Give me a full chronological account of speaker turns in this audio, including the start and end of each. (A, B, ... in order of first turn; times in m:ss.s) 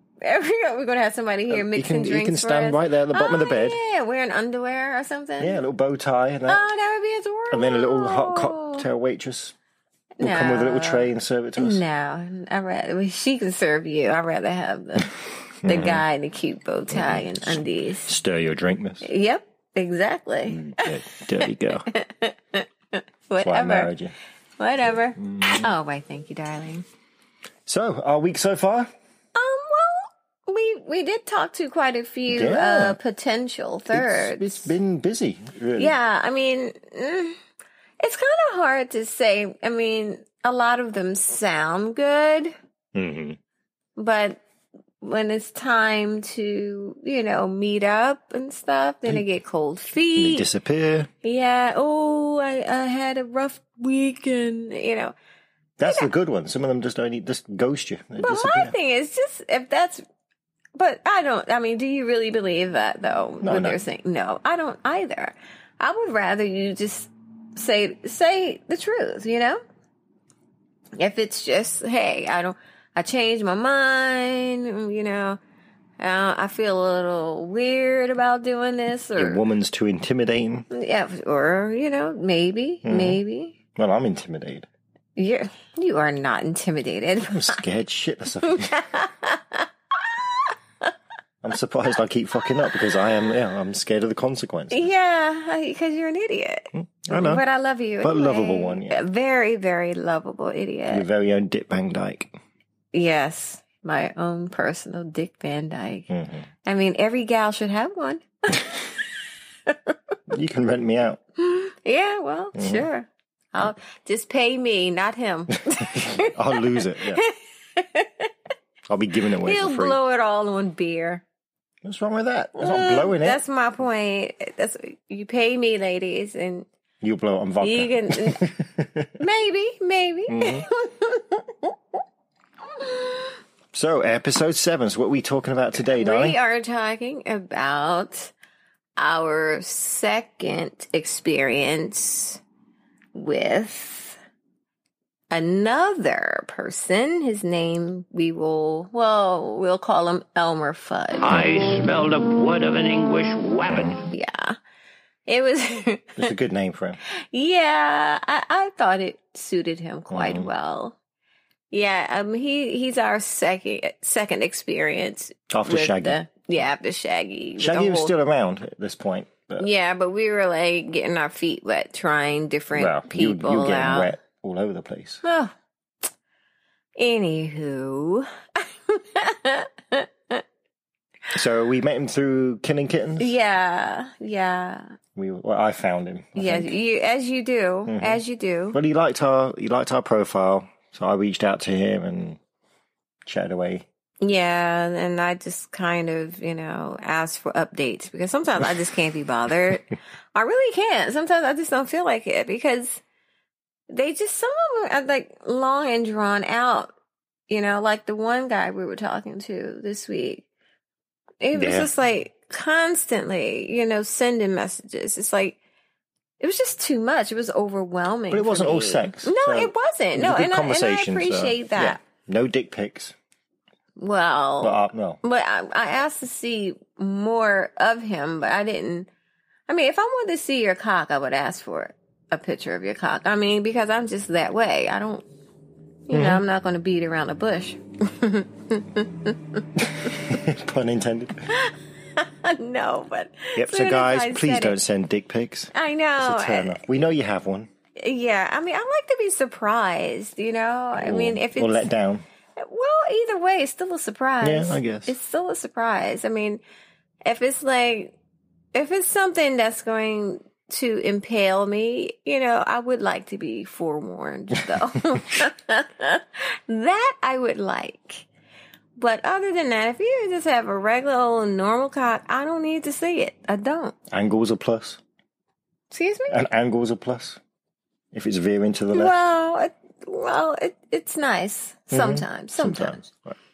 0:00.2-0:05.6 A
0:01.5-0:03.8 B
0:05.4-0:06.6 B
0:06.5-0:08.9 A
0:07.5-0:09.6 B
0:10.2-0:15.1 A
0:10.2-0:11.8 B
0:15.6-0:16.0 B
0:15.6-0:18.1 A
0:16.9-0:19.1 B
0:19.0-0:20.9 A
0:20.5-0:21.9 B
0:21.8-0:23.9 A
0:23.4-0:24.1 B
0:24.6-0:26.8 A
0:24.9-0:25.7 B
0:27.7-0:28.9 B
0:29.4-0:34.7 A
0:32.3-0:33.0 B
0:33.9-0:36.0 B
0:35.8-0:37.4 A
0:38.0-0:42.5 A
0:42.9-0:43.4 B
0:44.0-0:44.4 A
0:45.0-0:50.5 A
0:50.2-0:51.1 B
0:51.2-0:55.2 A
0:55.8-0:58.7 B
0:55.8-0:56.1 A
0:58.2-1:00.0 A
1:00.8-1:09.6 A
1:03.4-1:03.8 B
1:11.0-1:15.4 A
1:16.0-1:19.4 A
1:19.2-1:20.7 B
1:20.7-1:23.6 A
1:22.8-1:23.2 B
1:23.7-1:24.7 B
1:25.2-1:27.6 A
1:27.3-1:28.7 B
1:28.5-1:29.7 A
1:30.2-1:30.9 A
1:31.4-1:34.9 B
1:34.7-1:41.0 A
1:36.7-1:37.4 B
1:38.0-1:39.0 B
1:40.9-1:42.3 B
1:42.9-1:46.1 A
1:46.1-1:46.5 B
1:46.6-1:48.8 A
1:49.7-1:50.0 A
1:50.3-1:51.2 B
1:51.4-1:58.3 A
1:52.6-1:52.9 B
1:55.7-1:57.2 B
1:58.9-2:00.0 B
1:59.4-2:01.2 A
2:01.8-2:03.4 B
2:02.6-2:06.7 A
2:07.0-2:09.2 B
2:07.6-2:08.4 A
2:09.2-2:11.8 A
2:10.3-2:10.7 B
2:12.7-2:13.4 A
2:13.7-2:16.4 B
2:16.0-2:18.3 A
2:19.0-2:22.4 A
2:23.2-2:24.2 A
2:25.3-2:31.3 A
2:31.2-2:34.1 C
2:34.1-2:34.6 A
2:35.3-2:36.3 A
2:36.2-2:37.0 B
2:37.3-2:41.0 A
2:40.1-2:40.5 B
2:41.7-2:48.1 A
2:45.5-2:46.2 B
2:47.6-2:49.7 B
2:49.6-2:54.1 A
2:52.8-2:55.2 B
2:55.2-2:55.5 A
2:57.0-3:00.4 A
3:01.3-3:03.3 B
3:03.2-3:05.0 A
3:05.2-3:06.7 B
3:06.4-3:08.8 A
3:07.9-3:08.2 B
3:08.7-3:12.4 B
3:13.2-3:13.9 B
3:14.2-3:23.0 A
3:23.9-3:26.9 A
3:27.5-3:30.5 A
3:31.4-3:35.6 A
3:31.5-3:31.9 B
3:36.4-3:42.0 A
3:38.3-3:43.1 B
3:44.0-3:49.1 A
3:44.6-3:45.2 B
3:49.7-3:55.2 A
3:56.1-4:00.1 A
3:56.1-3:56.4 B
4:00.0-4:01.5 B
4:01.5-4:04.8 A
4:03.6-4:07.7 B
4:05.7-4:07.0 A
4:08.0-4:11.9 A
4:11.0-4:12.3 B
4:12.6-4:16.6 A
4:14.4-4:15.2 B
4:17.2-4:18.2 A
4:18.7-4:28.3 A
4:29.0-4:34.0 A
4:34.1-4:35.0 B
4:35.9-4:36.4 A
4:36.3-4:37.4 B
4:38.1-4:39.1 B
4:38.9-4:43.1 A
4:41.9-4:43.4 B